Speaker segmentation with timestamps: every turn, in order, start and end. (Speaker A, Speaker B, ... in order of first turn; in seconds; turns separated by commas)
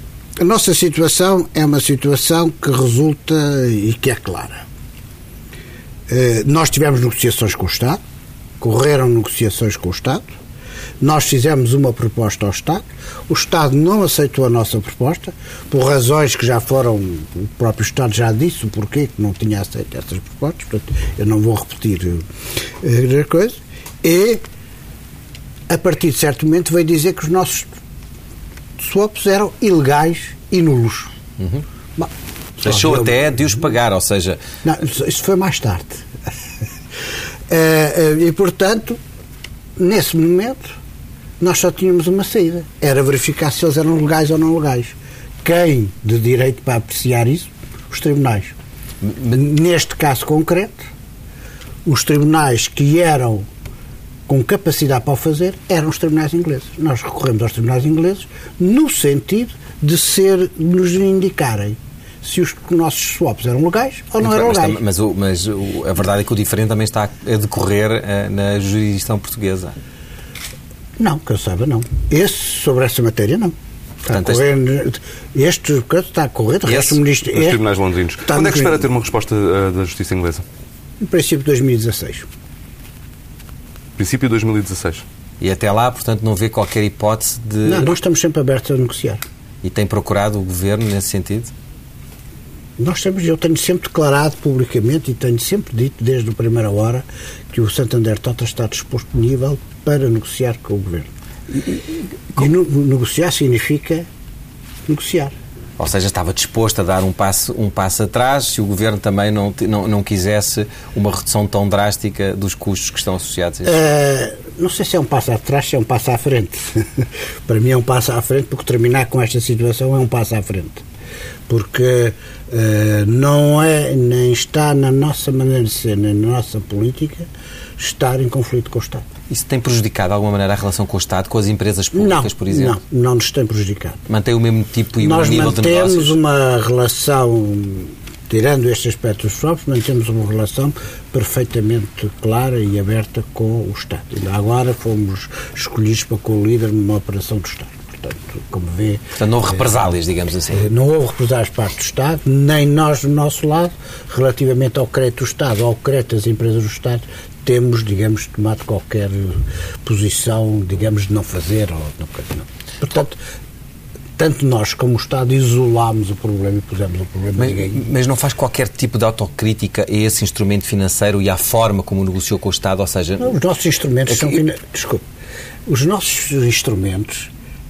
Speaker A: 0.4-4.6, Speaker A: 6.1-8.0, Speaker A: 8.6-10.2, Speaker A: 11.0-22.2, Speaker A: 22.8-24.4, Speaker A: 25.7-27.8, Speaker A: 28.8-31.1, Speaker B: 31.4-31.6, Speaker B: 32.6-34.4, Speaker A: 32.6-33.4, Speaker A: 34.6-36.1, Speaker A: 37.5-39.0, Speaker A: 39.8-40.7, Speaker A: 41.4-48.5, Speaker A: 49.2-50.8, Speaker A: 51.8-53.5, Speaker A: 54.3-64.8, Speaker B: 64.2-69.8, Speaker A: 71.0-77.6, Speaker B: 74.1-74.5, Speaker B: 76.7-77.0, Speaker C: 77.3-80.4, Speaker A: 78.3-78.9, Speaker A: 81.0-82.2, Speaker C: 84.0-85.0, Speaker B: 85.4-87.9, Speaker A: 87.6-89.2, Speaker B: 89.6-91.5, Speaker A: 92.8-101.8, Speaker A: 102.3-104.1, Speaker A: 104.9-105.3, Speaker B: 105.8-113.8, Speaker A: 113.6-120.8, Speaker A: 121.5-129.0, Speaker B: 129.3-132.8, Speaker A: 131.9-134.0, Speaker B: 134.1-136.2, Speaker A: 135.0-149.8, Speaker B: 149.2-150.7, Speaker A: 150.5-163.2, Speaker A: 164.2-167.8, Speaker B: 167.4-173.4, Speaker A: 173.2-175.0, Speaker B: 174.1-174.4, Speaker A: 175.7-177.3